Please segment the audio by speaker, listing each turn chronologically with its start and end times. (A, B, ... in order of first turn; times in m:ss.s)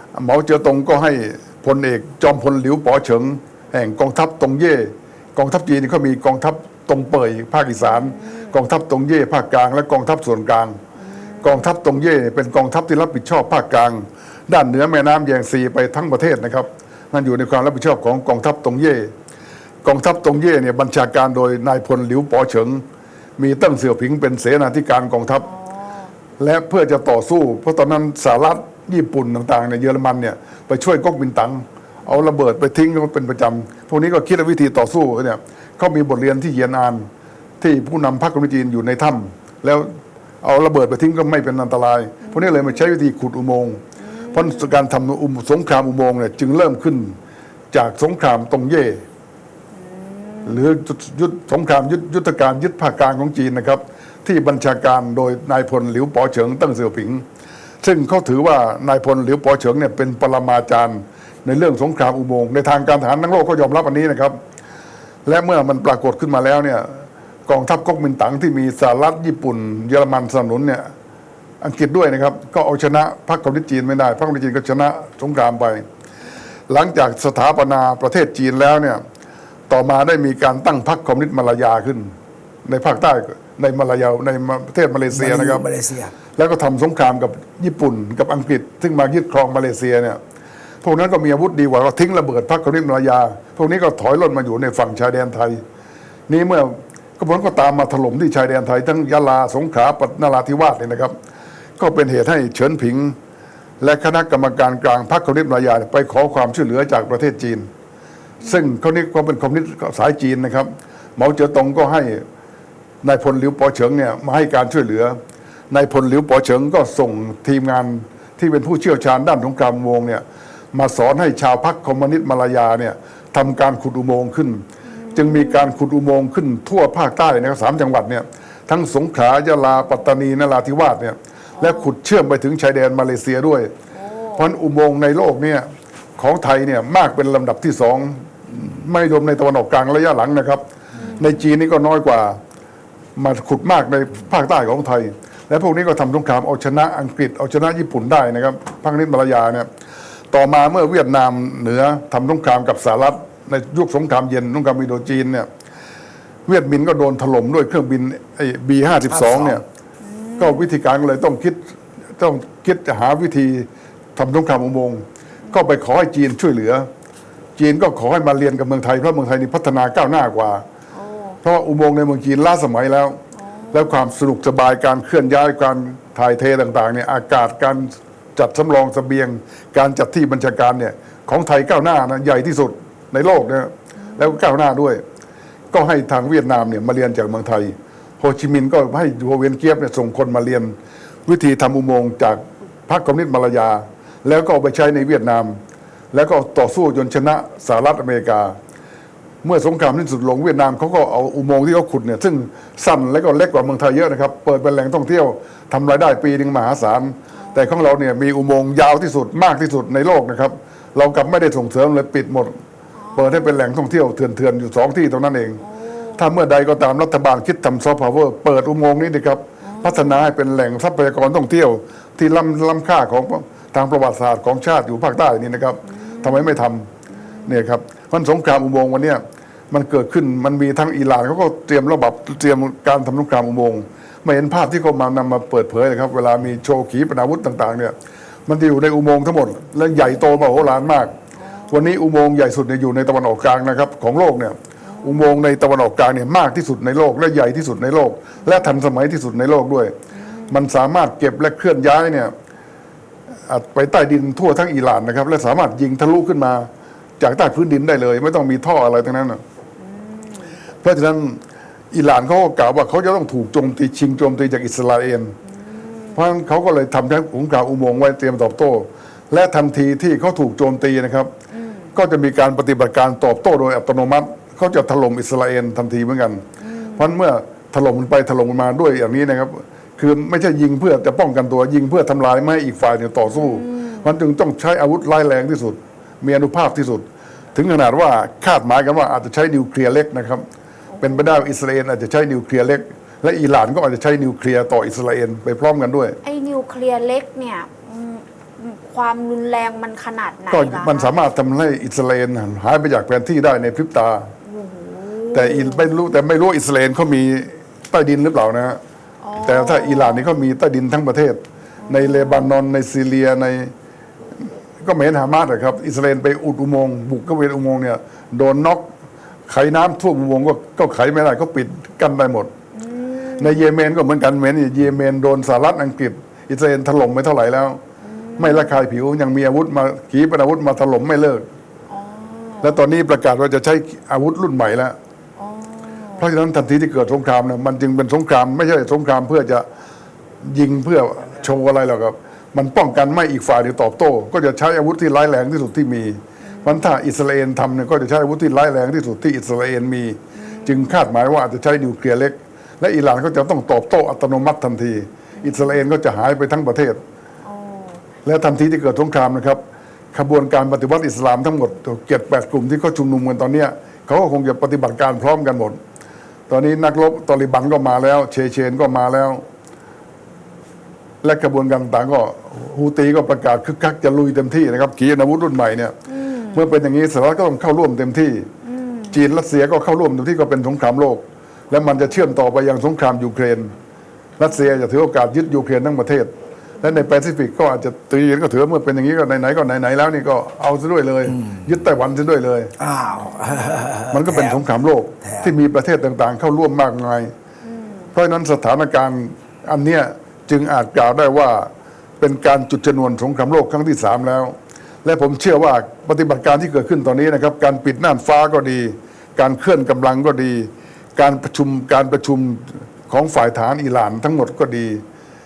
0:00.1-0:10.8 A
0:07.8-0:08.6 B
0:11.0-0:11.7 B
0:11.4-0:19.1 A
0:19.8-0:22.8 A
0:23.4-0:25.5 A
0:25.4-0:26.1 B
0:26.4-0:37.1 A
0:37.6-0:39.9 A
0:40.4-0:43.8 A
0:42.2-0:42.9 B
0:44.0-0:44.8 B
0:44.3-0:47.2 A
0:47.7-0:49.0 A
0:49.7-0:50.7 B
0:50.5-0:57.2 A
0:57.8-1:04.4 A
1:05.3-1:10.9 A
1:11.6-1:15.8 A
1:16.7-1:19.0 A
1:19.7-1:22.1 A
1:22.6-1:25.6 A
1:25.1-1:26.1 C
1:26.4-1:30.2 A
1:30.8-1:35.6 A
1:36.3-1:41.1 A
1:41.8-1:43.2 A
1:43.8-1:47.7 A
1:48.4-1:48.7 B
1:48.4-1:52.2 A
1:53.0-1:55.2 A
1:55.7-2:04.6 A
2:04.9-2:05.8 B
2:05.2-2:13.7 A
2:09.7-2:10.1 B
2:11.6-2:11.9 B
2:13.9-2:14.5 B
2:14.4-2:20.6 A
2:21.0-2:21.4 B
2:21.2-2:22.4 A
2:23.2-2:29.7 A
2:30.3-2:35.5 A
2:36.5-2:39.6 A
2:39.1-2:39.6 C
2:40.0-2:40.7 B
2:40.4-2:41.6 A
2:42.2-2:46.9 A
2:47.6-2:50.6 A
2:50.9-2:51.4 B
2:51.4-2:53.2 A
2:53.4-2:54.1 B
2:53.7-3:05.0 A
3:04.0-3:04.4 B
3:05.7-3:10.8 A
3:11.3-3:15.6 A
3:16.1-3:18.6 A
3:19.4-3:32.6 A
3:27.4-3:27.7 B
3:33.0-3:33.6 B
3:33.2-3:35.6 A
3:35.6-3:36.3 B
3:36.2-3:46.9 A
3:39.6-3:40.3 B
3:45.9-3:47.7 B
3:47.5-3:57.9 A
3:58.5-4:01.1 A
4:01.4-4:02.0 B
4:01.7-4:10.0 A
4:04.8-4:05.4 B
4:08.4-4:08.8 B
4:10.1-4:10.6 B
4:10.5-4:12.3 A
4:13.5-4:16.7 A
4:17.2-4:19.4 A
4:19.8-4:20.6 B
4:20.8-4:21.4 A
4:21.9-4:25.4 A
4:25.4-4:26.2 B
4:26.2-4:31.3 A
4:31.5-4:31.9 B
4:32.0-4:36.4 A
4:36.6-4:37.1 B
4:37.0-4:50.4 A
4:43.3-4:44.1 B
4:50.9-4:51.5 B
4:51.0-4:56.2 A
4:56.2-5:01.2 B
5:00.5-5:04.3 A
5:04.4-5:05.9 B
5:05.3-5:08.8 A
5:09.2-5:10.3 B
5:09.4-5:13.7 A
5:11.8-5:12.5 B
5:14.4-5:18.9 A
5:19.5-5:22.5 A
5:22.7-5:23.7 B
5:23.4-5:27.8 A
5:28.0-5:28.8 B
5:28.4-5:31.4 A
5:31.9-5:32.8 B
5:32.6-5:35.0 A
5:35.4-5:36.3 B
5:36.2-5:39.7 A
5:40.4-5:57.0 A
5:46.4-5:47.0 B
5:50.3-5:51.0 B
5:55.4-5:55.8 B
5:57.4-5:58.0 B
5:58.2-6:05.8 A
6:06.5-6:09.4 A
6:11.2-6:16.0 A
6:16.1-6:16.7 B
6:16.5-6:18.5 A
6:18.6-6:19.2 B
6:19.1-6:23.7 A
6:21.9-6:22.2 B
6:24.4-6:32.7 A
6:31.3-6:31.6 C
6:32.8-6:34.7 C
6:33.2-6:33.9 B
6:34.1-6:37.3 A
6:35.2-6:35.5 C
6:37.6-6:38.1 B
6:38.1-6:41.7 A
6:42.2-6:55.0 A